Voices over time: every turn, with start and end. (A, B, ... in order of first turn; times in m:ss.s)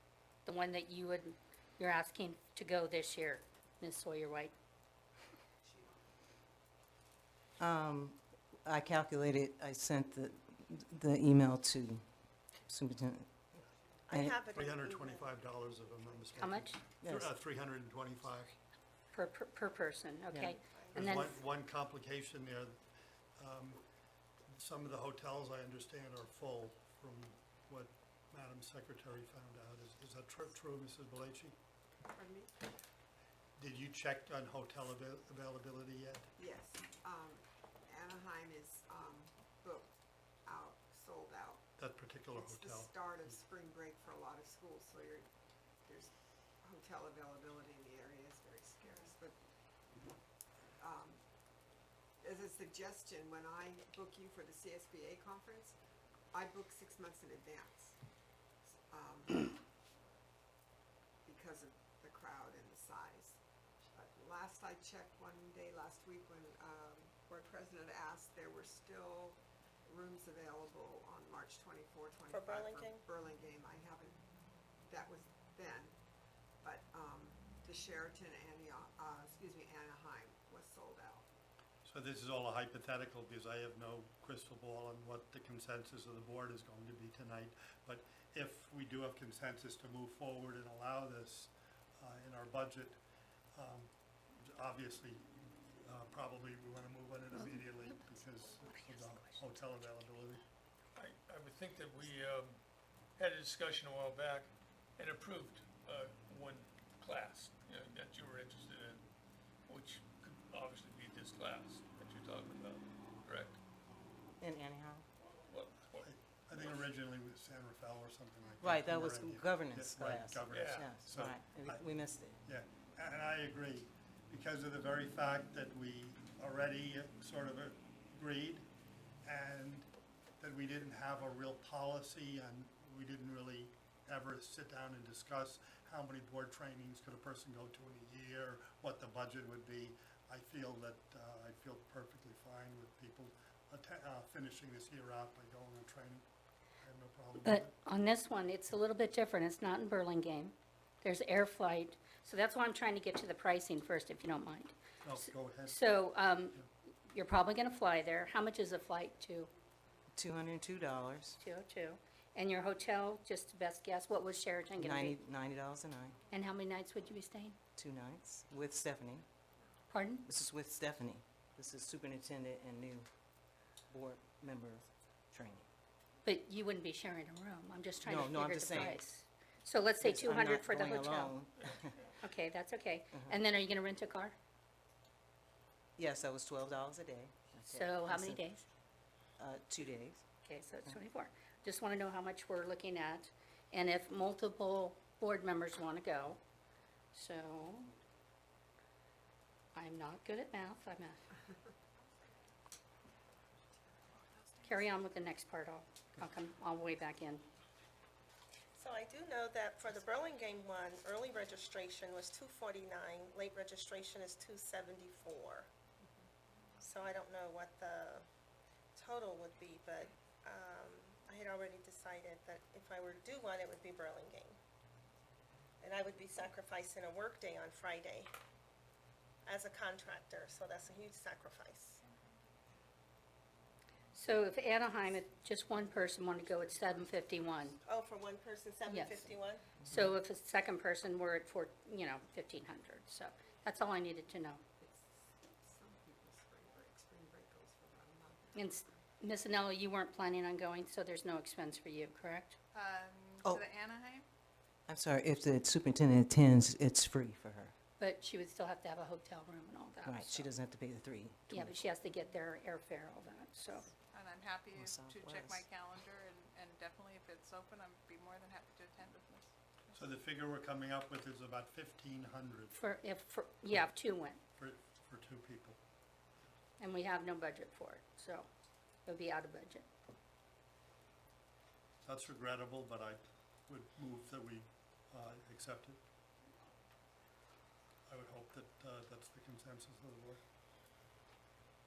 0:00.4-0:04.5 A
0:05.6-0:06.0 B
0:07.6-0:12.1 C
0:12.7-0:13.3 C
0:14.1-0:15.4 D
0:14.1-0:14.4 C
0:14.4-0:18.6 E
0:16.4-0:16.8 A
0:17.0-0:17.3 C
0:19.1-0:21.4 A
0:20.3-0:20.6 C
0:20.7-0:21.2 D
0:20.9-0:22.8 E
0:23.4-0:23.8 E
0:24.5-0:31.6 E
0:32.1-0:32.5 B
0:33.6-0:36.3 E
0:36.4-0:39.9 B
0:40.4-0:41.6 B
0:41.8-0:43.4 E
0:42.3-0:45.3 B
0:45.8-0:49.4 B
0:50.8-0:51.2 B
0:52.2-0:55.8 B
0:56.3-0:58.0 B
0:58.9-0:59.6 B
1:01.2-1:03.4 B
1:03.9-1:14.2 B
1:12.3-1:13.0 D
1:14.9-1:16.0 B
1:16.6-1:21.3 B
1:21.8-1:33.0 E
1:33.6-1:35.3 E
1:35.8-1:40.4 E
1:37.3-1:39.8 A
1:41.0-1:42.6 F
1:43.2-1:49.1 F
1:49.7-1:53.6 F
1:54.4-1:55.1 C
1:55.2-1:56.8 F
1:56.0-2:01.9 E
1:58.6-2:02.4 C
2:00.4-2:00.9 F
2:02.4-2:08.7 E
2:09.2-2:26.3 E
2:26.8-2:27.7 E
2:27.4-2:39.5 A
2:35.0-2:35.8 E
2:40.1-2:41.4 C
2:41.4-2:45.2 A
2:44.8-2:46.2 C
2:46.3-2:47.6 A
2:47.8-2:49.3 C
2:49.9-2:50.3 A
2:50.2-2:53.1 C
2:53.9-2:55.7 C
2:56.2-3:01.4 A
2:58.0-2:59.0 C
3:00.0-3:02.0 C
3:02.2-3:04.4 A
3:06.0-3:08.4 C
3:07.7-3:08.7 A
3:09.4-3:10.2 C
3:10.4-3:16.4 A
3:17.1-3:17.9 A
3:19.8-3:21.2 A
3:24.6-3:27.4 A
3:28.8-3:35.7 D
3:36.8-3:38.3 D
3:39.0-3:44.6 D
3:45.8-3:48.3 D
3:49.4-3:52.0 D
3:54.1-3:57.8 A
3:57.8-3:59.7 D
3:58.9-3:59.3 A
3:59.8-4:04.6 A
4:04.8-4:09.0 B
4:08.6-4:12.6 A
4:12.7-4:14.3 G
4:14.9-4:17.7 C
4:18.0-4:20.5 A
4:20.0-4:21.8 C
4:21.5-4:23.9 A
4:24.1-4:29.5 G
4:24.8-4:25.6 C
4:29.9-4:32.8 E
4:32.8-4:34.4 A
4:34.6-4:35.8 E
4:36.8-4:38.5 A
4:39.1-4:39.9 A
4:42.0-4:46.0 E
4:48.1-4:50.4 E